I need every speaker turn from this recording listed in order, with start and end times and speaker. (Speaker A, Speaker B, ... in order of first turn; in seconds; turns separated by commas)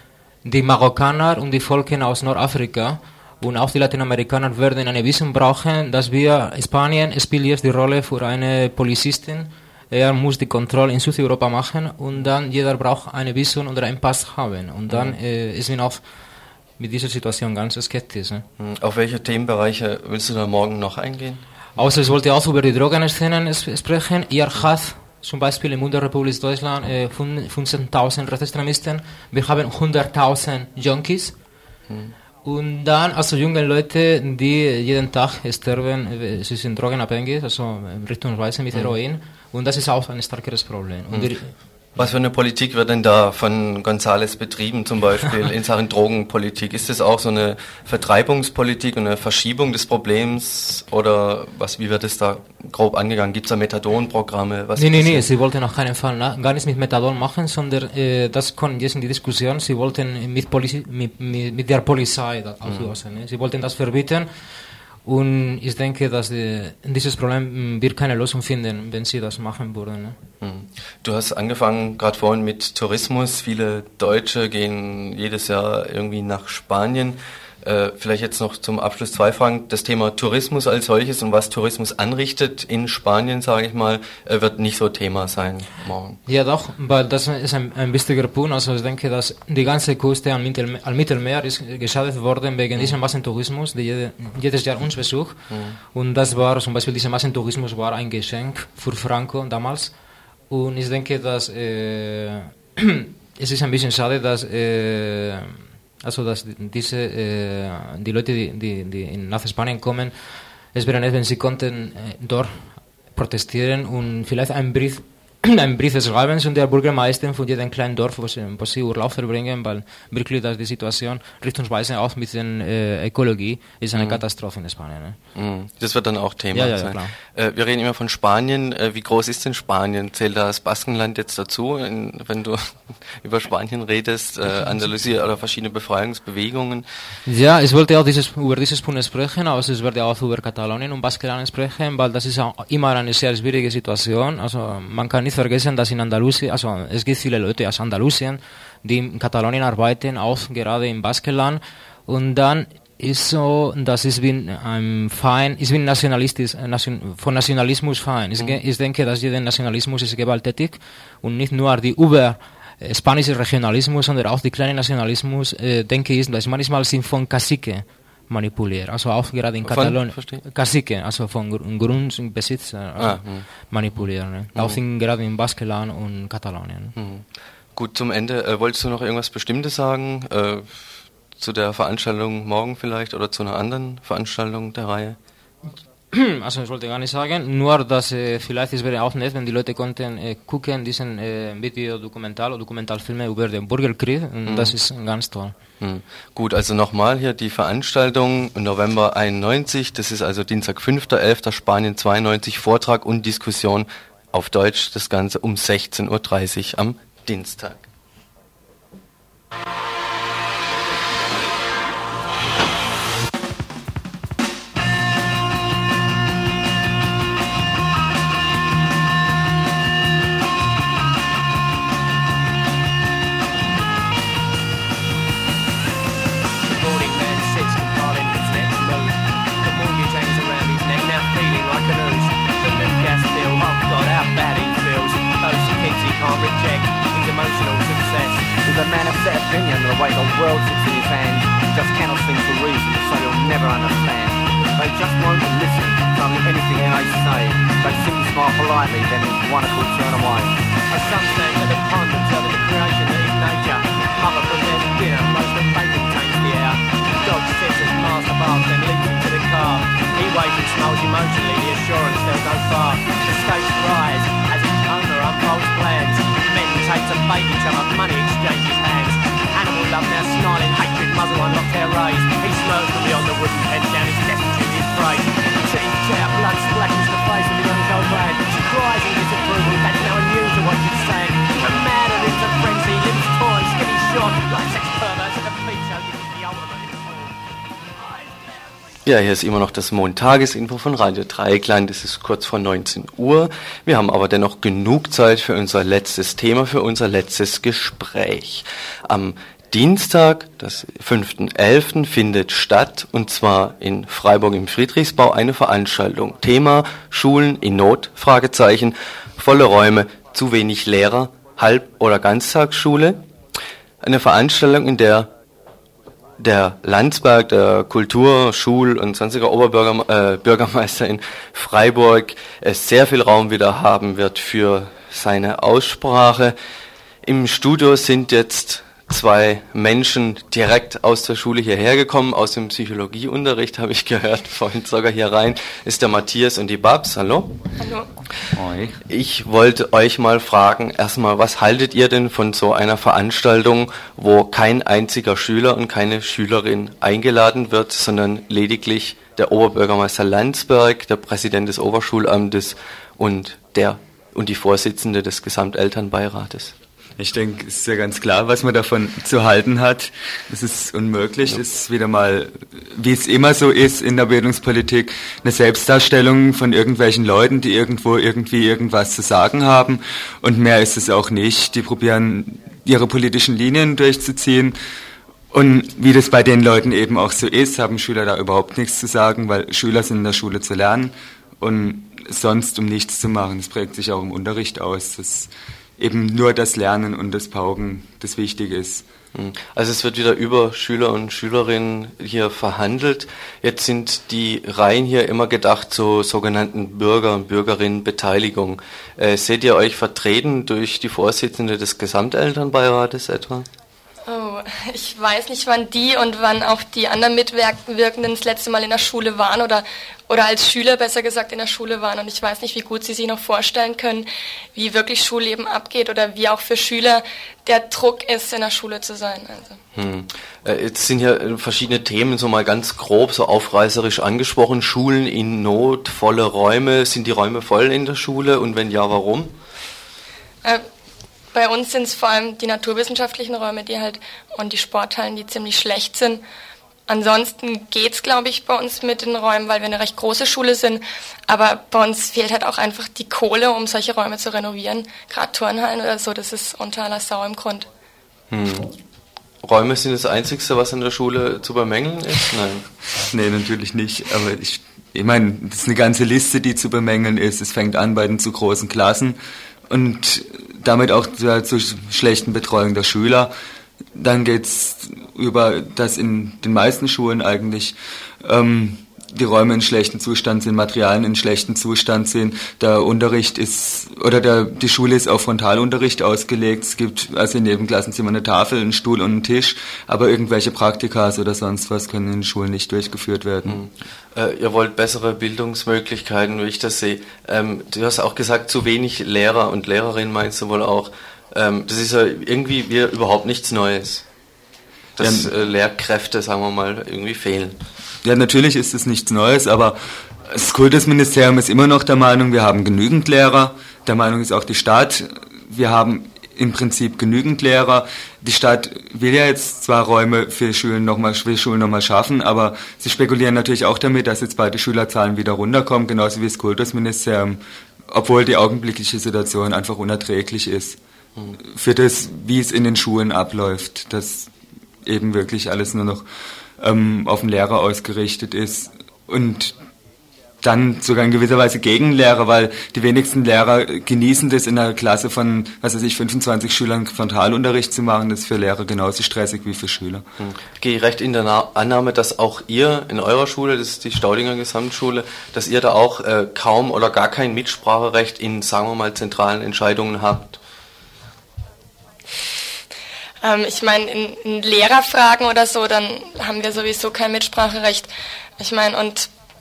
Speaker A: 0.5-16.0, Speaker B: 14.9-15.2, Speaker A: 16.8-18.5, Speaker B: 18.6-21.4, Speaker A: 21.8-31.4, Speaker B: 31.9-32.1, Speaker A: 32.4-41.5, Speaker B: 42.0-55.3, Speaker A: 54.8-64.3, Speaker B: 62.6-62.9, Speaker A: 65.0-70.2, Speaker B: 70.4-86.2, Speaker A: 86.3-99.9, Speaker B: 95.5-95.8, Speaker A: 100.5-125.2, Speaker B: 124.0-124.2, Speaker B: 125.3-136.9, Speaker A: 126.5-127.2, Speaker A: 137.3-176.9, Speaker B: 158.3-158.6, Speaker B: 169.6-170.4, Speaker B: 173.0-173.5, Speaker B: 174.5-174.8, Speaker B: 177.0-185.2, Speaker A: 186.1-195.5, Speaker B: 194.5-194.8, Speaker B: 195.8-207.9, Speaker C: 226.7-238.5, Speaker D: 238.6-250.5, Speaker C: 250.9-287.4, Speaker C: 288.0-288.6, Speaker B: 289.1-313.3, Speaker B: 314.0-315.3, Speaker B: 316.4-326.6, Speaker B: 327.2-337.6, Speaker E: 337.8-338.1, Speaker F: 338.6-339.0, Speaker B: 339.1-356.8, Speaker F: 357.2-374.8, Speaker F: 375.5-389.1, Speaker B: 389.3-403.7, Speaker E: 404.3-419.8, Speaker B: 419.9-429.5, Speaker E: 431.5-436.4, Speaker E: 437.1-447.9, Speaker B: 448.5-448.9, Speaker B: 449.6-452.9, Speaker F: 453.3-459.4, Speaker F: 459.9-463.5, Speaker F: 464.1-483.9, Speaker B: 483.6-494.3, Speaker B: 495.2-497.8, Speaker F: 495.2-495.5, Speaker F: 498.2-521.0, Speaker F: 521.5-529.8, Speaker F: 530.6-540.2, Speaker B: 540.4-550.6, Speaker E: 553.4-559.3